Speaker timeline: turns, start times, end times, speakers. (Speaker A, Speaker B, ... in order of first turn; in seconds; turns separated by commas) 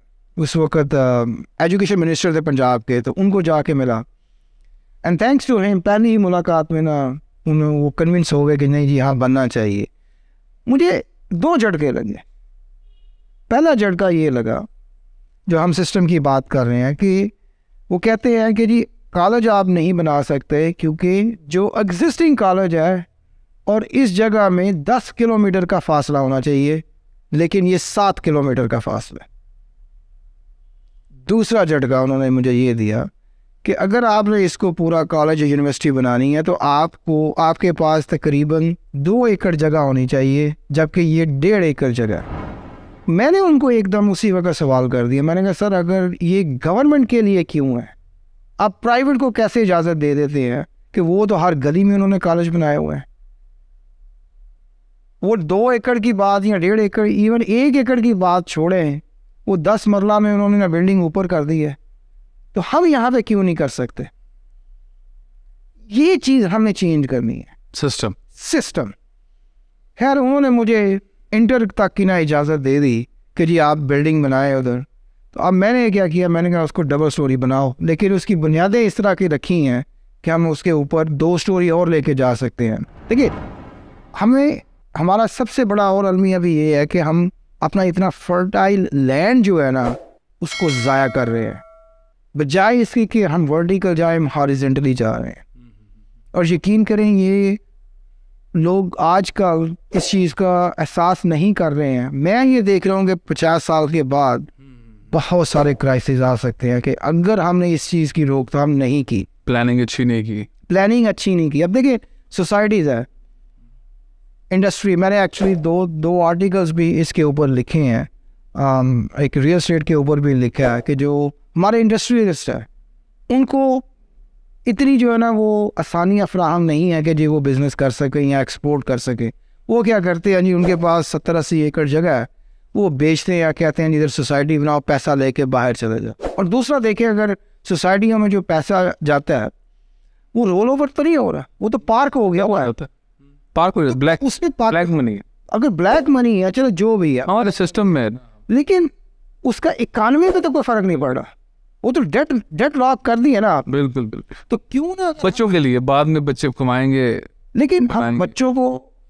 Speaker A: 0.4-4.1, Speaker A: 5.0-9.9, Speaker A: 10.7-12.2, Speaker A: 13.5-14.7, Speaker A: 15.5-17.3, Speaker A: 17.9-23.1, Speaker A: 23.7-29.3, Speaker A: 31.2-33.1, Speaker A: 33.6-42.3, Speaker A: 43.1-48.0, Speaker A: 48.6-53.1, Speaker A: 55.2-61.8, Speaker A: 62.5-64.1, Speaker A: 65.9-67.5, Speaker B: 67.7-68.2, Speaker A: 68.3-68.9, Speaker A: 70.0-83.3, Speaker A: 84.2-91.6, Speaker A: 92.3-95.4, Speaker A: 96.3-97.6, Speaker A: 98.5-104.5, Speaker A: 105.1-109.3, Speaker B: 109.5-110.5, Speaker A: 110.7-113.1, Speaker A: 114.5-122.7, Speaker A: 123.3-123.9, Speaker A: 124.7-139.5, Speaker A: 140.3-142.7, Speaker B: 142.6-142.9, Speaker B: 143.6-145.2, Speaker A: 143.9-144.9, Speaker A: 145.5-147.8, Speaker B: 147.3-148.2, Speaker A: 148.5-148.9, Speaker A: 149.4-151.3, Speaker A: 151.8-153.7, Speaker B: 153.7-154.4, Speaker A: 154.5-155.5, Speaker B: 155.2-157.3, Speaker A: 157.5-158.9, Speaker B: 157.9-158.3